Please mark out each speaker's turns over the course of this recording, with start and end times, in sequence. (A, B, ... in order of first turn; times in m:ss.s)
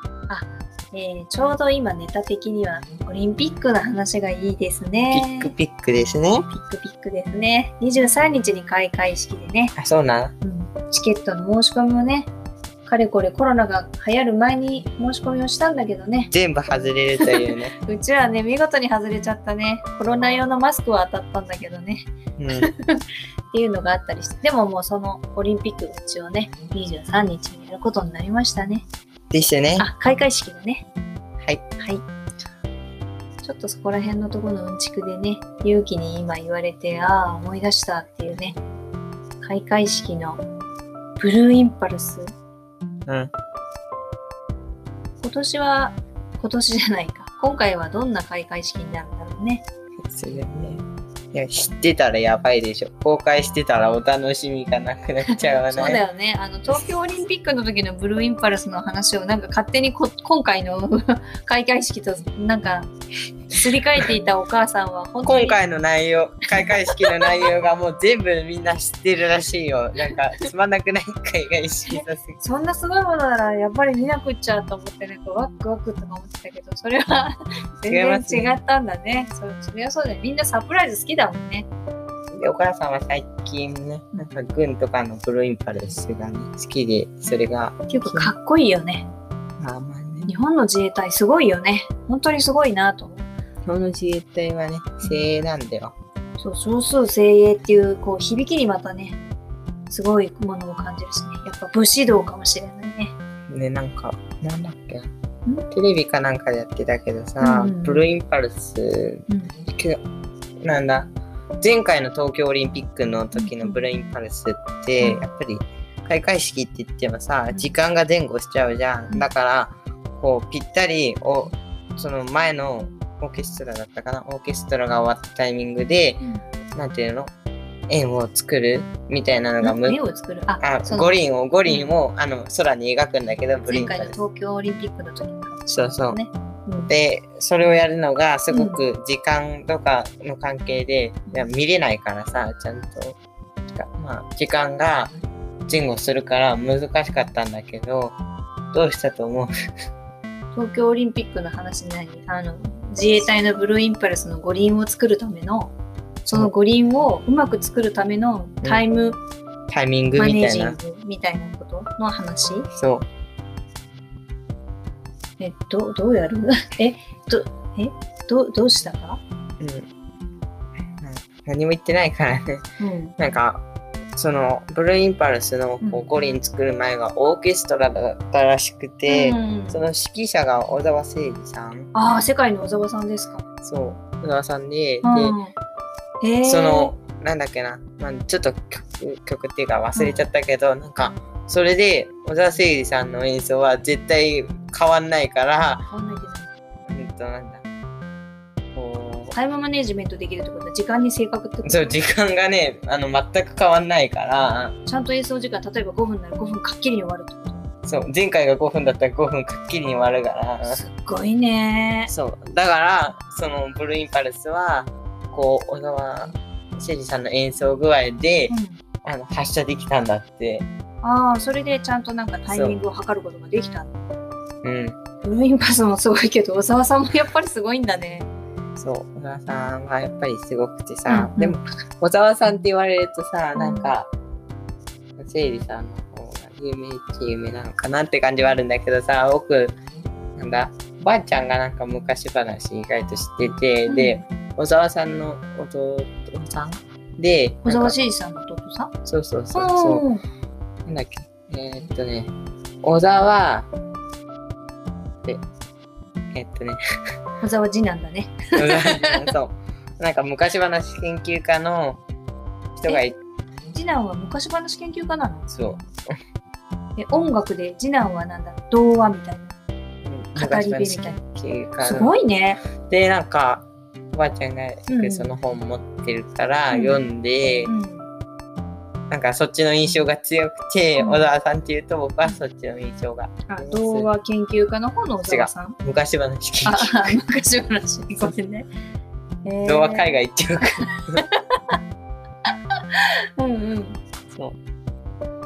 0:00.3-0:05.5 A
0:05.1-0:06.5 B
0:06.5-0:09.8 A
0:09.8-0:10.3 B
0:10.4-0:12.3 A
0:12.9-0:16.3 A
0:16.3-0:17.7 B
0:17.2-0:28.9 A
0:22.4-0:22.7 B
0:29.3-0:29.9 B
0:29.8-0:30.9 A
0:33.4-0:38.6 A
0:39.4-0:40.4 A
0:41.2-0:42.3 A
0:45.2-0:49.6 A
0:50.1-0:56.0 B
0:55.4-1:02.9 A
1:03.5-1:05.6 A
1:05.2-1:12.4 B
1:06.6-1:07.2 A
1:11.9-1:21.7 A
1:17.9-1:18.6 B
1:22.3-1:28.3 B
1:27.9-1:29.1 A
1:29.6-1:30.3 B
1:30.3-1:33.3 A
1:33.6-1:35.9 B
1:35.0-1:35.3 A
1:36.4-1:39.2 A
1:39.9-1:43.2 A
1:43.5-1:45.1 B
1:45.7-1:49.2 B
1:47.4-1:48.0 A
1:49.3-1:49.5 A
1:50.6-2:06.2 B
1:53.4-1:53.8 A
1:55.0-1:55.3 A
2:06.8-2:07.3 B
2:07.9-2:10.0 B
2:09.6-2:11.2 A
2:10.6-2:14.2 B
2:11.7-2:11.9 A
2:13.7-2:16.9 A
2:15.7-2:16.2 B
2:16.9-2:23.2 B
2:18.5-2:18.8 A
2:21.3-2:21.5 A
2:23.7-2:25.1 B
2:25.7-2:28.2 B
2:28.7-2:29.5 B
2:30.6-2:35.7 A
2:36.2-2:39.2 A
2:39.7-2:40.8 B
2:40.2-2:42.7 A
2:42.7-2:43.1 B
2:45.4-2:49.2 A
2:49.6-2:49.9 B
2:51.0-2:52.6 B
2:52.8-2:53.1 A
2:53.2-2:53.6 B
2:54.2-3:01.9 B
2:55.8-2:56.1 A
2:59.1-2:59.8 A
3:01.9-3:03.4 A
3:03.6-3:05.4 B
3:05.0-3:05.5 A
3:06.2-3:06.9 A
3:06.4-3:15.8 B
3:10.0-3:10.2 A
3:15.8-3:16.5 A
3:16.9-3:17.6 B
3:18.7-3:19.4 B
3:19.3-3:22.0 A
3:21.6-3:24.7 B
3:24.9-3:27.6 A
3:27.9-3:30.8 B
3:30.6-3:32.1 A
3:32.1-3:40.7 B
3:38.5-3:38.8 A
3:41.0-3:44.0 A
3:42.5-3:42.8 B
3:44.6-3:45.0 B
3:45.2-3:48.3 A
3:48.8-3:54.1 B
3:51.1-3:51.6 A
3:53.6-3:53.9 A
3:55.2-3:59.8 B
4:00.4-4:08.0 B
4:03.9-4:04.2 A
4:07.6-4:08.9 A
4:09.1-4:10.0 B
4:09.5-4:10.2 A
4:10.9-4:12.3 B
4:12.8-4:13.7 B
4:16.3-4:16.8 B
4:17.4-4:19.3 A
4:18.6-4:22.0 B
4:22.8-4:23.2 B
4:23.7-4:25.5 A
4:25.5-4:26.1 B
4:27.0-4:29.5 A
4:30.0-4:32.1 B
4:30.4-4:31.2 A
4:31.8-4:32.6 A
4:32.8-4:37.7 B
4:34.9-4:35.3 A
4:36.7-4:37.0 A
4:37.7-4:38.1 A
4:39.1-4:44.1 B
4:41.0-4:41.2 A
4:43.5-4:45.8 A
4:45.3-4:47.2 B
4:46.6-4:48.7 A
4:49.4-4:50.2 A
4:49.6-4:51.2 B
4:52.9-4:54.0 A